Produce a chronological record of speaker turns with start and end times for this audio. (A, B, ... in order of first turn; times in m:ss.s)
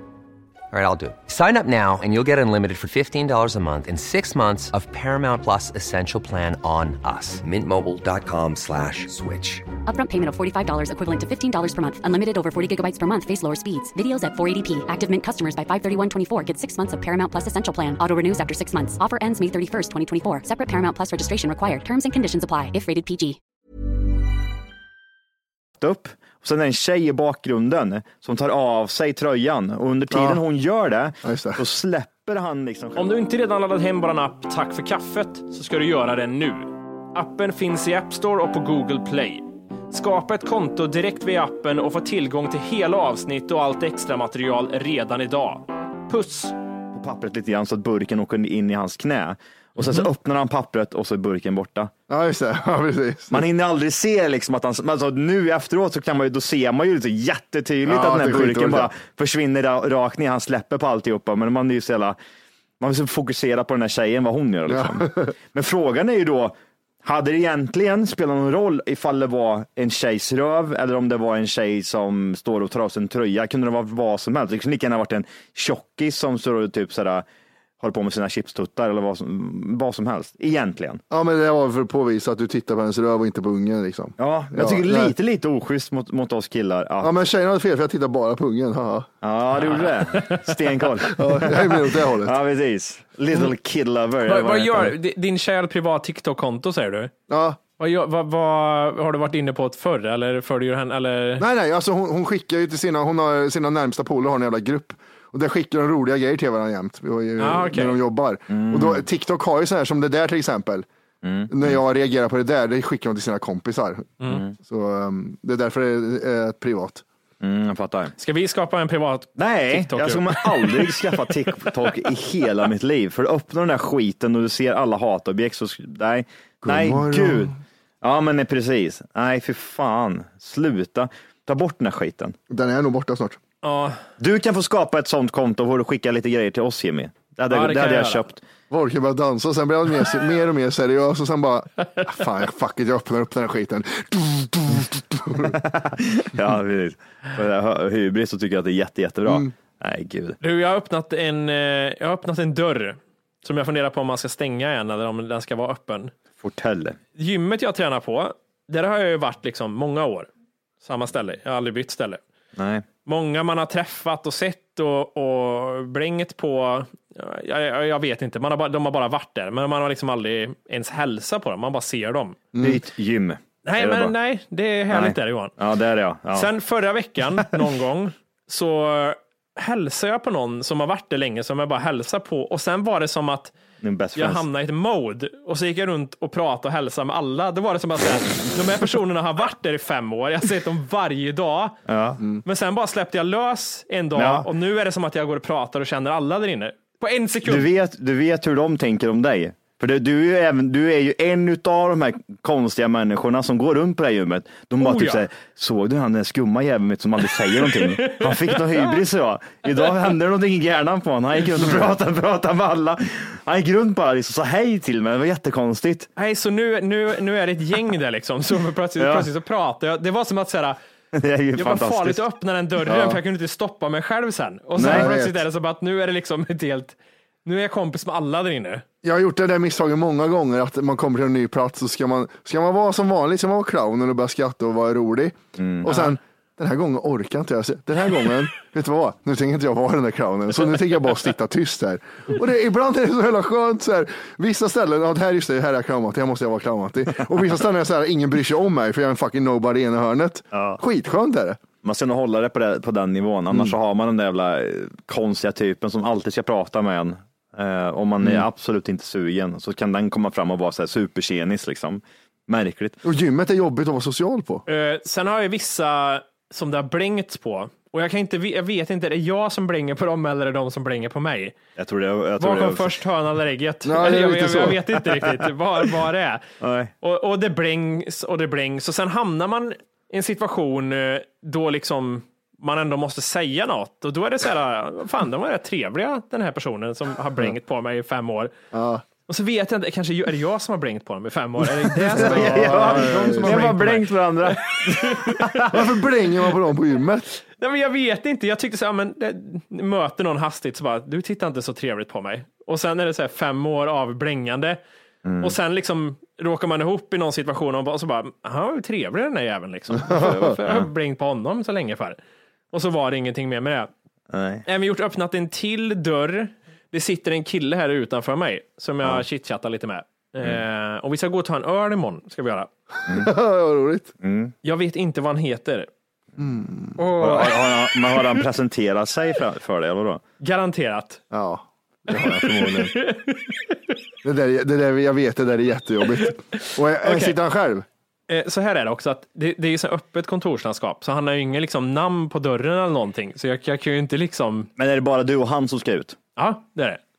0:00.7-0:09.7 A
0:09.8-0:23.4 B
0:25.8-0:33.2 C
0:30.1-0:30.4 D
0:31.2-0:31.6 D
0:33.0-0:46.6 E
0:46.9-0:51.9 C
0:49.8-0:50.1 E
0:52.1-0:53.4 D
0:53.3-1:02.2 C
0:57.8-0:58.9 D
1:02.8-1:17.2 C
1:04.7-1:05.3 D
1:17.8-1:21.0 C
1:21.1-1:25.1 D
1:24.2-1:27.1 C
1:27.0-1:29.1 D
1:29.2-1:34.9 C
1:29.7-1:30.5 E
1:31.1-1:32.3 D
1:34.2-1:37.1 E
1:37.3-1:37.6 D
1:37.8-1:41.4 E
1:41.4-1:50.9 D
1:47.4-1:48.0 E
1:48.5-1:49.0 C
1:51.2-1:51.8 C
1:51.5-1:57.0 D
1:54.3-1:54.5 C
1:57.4-1:58.1 C
1:58.2-2:01.4 E
1:59.4-2:12.4 C
2:06.6-2:07.6 D
2:12.5-2:13.4 D
2:13.6-2:14.0 E
2:14.2-2:18.4 C
2:17.5-2:18.2 E
2:18.7-2:25.6 D
2:25.4-2:30.4 C
2:30.4-2:36.1 E
2:36.4-2:37.0 C
2:37.2-2:40.3 E
2:40.8-2:42.2 E
2:42.6-2:42.8 C
2:43.0-2:52.4 E
2:52.5-2:52.8 D
2:52.6-2:54.1 C
2:53.6-2:55.5 E
2:54.9-2:56.5 C
2:56.3-3:03.5 E
3:03.8-3:04.4 C
3:04.2-3:11.8 E
3:11.9-3:12.2 C
3:12.4-3:17.7 E
3:14.1-3:14.5 C
3:17.4-3:36.1 C
3:24.8-3:25.2 E
3:27.5-3:29.0 E
3:36.2-3:40.8 E
3:39.0-3:39.3 C
3:41.1-3:42.2 C
3:41.6-3:48.8 E
3:44.8-3:45.1 C
3:44.8-3:45.4 D
3:49.0-4:11.6 D
3:55.6-3:55.9 C
4:10.5-4:10.8 C
4:11.8-4:23.0 C
4:23.0-4:24.6 D
4:24.7-4:31.6 E
4:31.8-4:32.9 C
4:32.4-4:36.4 E
4:33.8-4:34.8 D
4:36.6-4:36.9 C
4:37.0-4:48.5 E
4:48.7-4:49.0 D
4:49.3-4:55.8 E
4:52.0-4:55.8 C
4:52.1-4:53.7 D
4:55.7-4:57.3 D
4:57.5-5:04.8 E
5:05.2-5:05.6 C
5:05.4-5:12.2 E
5:12.7-5:13.9 E
5:14.3-5:14.6 C
5:14.6-5:22.7 E
5:23.0-5:24.1 D
5:24.2-5:24.5 C
5:24.6-5:25.9 E
5:26.4-5:27.0 D
5:27.0-5:28.4 E
5:27.1-5:30.2 C
5:30.4-5:31.2 E
5:31.3-5:33.0 D
5:32.1-5:33.7 E
5:34.2-5:37.8 D
5:36.2-5:37.4 E
5:38.3-5:44.7 E
5:44.8-5:46.2 C
5:46.4-5:47.0 E